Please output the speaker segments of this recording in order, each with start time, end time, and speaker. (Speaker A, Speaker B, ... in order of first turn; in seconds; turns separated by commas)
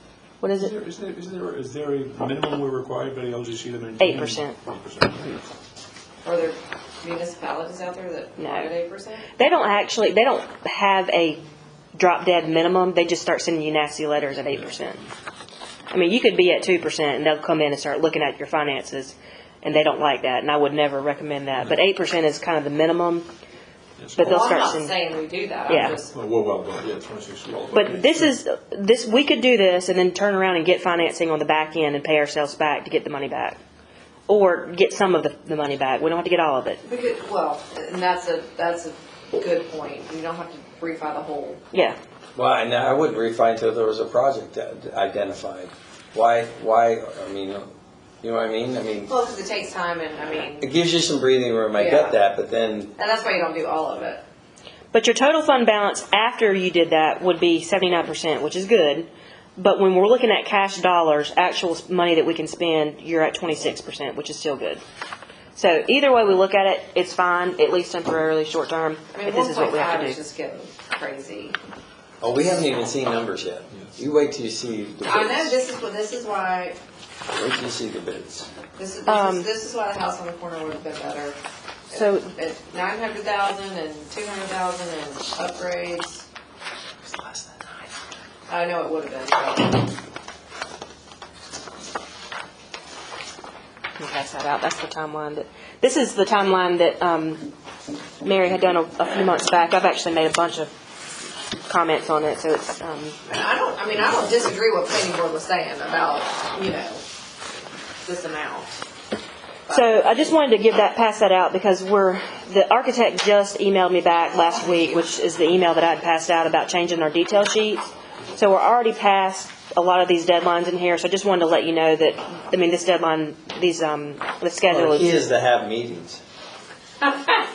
Speaker A: 0.4-0.8, Speaker B: 0.6-5.4, Speaker A: 4.0-4.6, Speaker C: 6.2-9.3, Speaker A: 8.4-8.7, Speaker A: 9.4-11.4, Speaker A: 11.9-15.1, Speaker A: 15.9-23.3, Speaker B: 24.0-24.5, Speaker A: 24.2-24.9, Speaker C: 24.2-26.1, Speaker A: 25.7-26.0, Speaker B: 26.1-28.3, Speaker A: 27.7-33.6, Speaker A: 34.3-36.8, Speaker C: 36.8-41.6, Speaker A: 41.7-42.0, Speaker D: 42.4-47.7, Speaker D: 48.2-49.1, Speaker C: 49.1-50.6, Speaker D: 50.6-52.9, Speaker C: 51.7-52.1, Speaker C: 53.0-54.2, Speaker A: 54.9-64.8, Speaker A: 65.5-70.2, Speaker C: 69.1-71.5, Speaker D: 72.2-75.5, Speaker C: 75.0-76.8, Speaker D: 77.3-78.5, Speaker C: 78.8-81.4, Speaker A: 79.1-79.5, Speaker A: 81.9-82.3, Speaker C: 81.9-86.2, Speaker A: 87.1-87.7, Speaker C: 88.5-89.9, Speaker A: 94.0-97.5, Speaker A: 98.2-100.7, Speaker A: 101.7-103.2, Speaker C: 103.3-107.0, Speaker C: 108.0-108.8, Speaker C: 109.7-110.0, Speaker A: 109.7-125.1, Speaker D: 124.7-126.2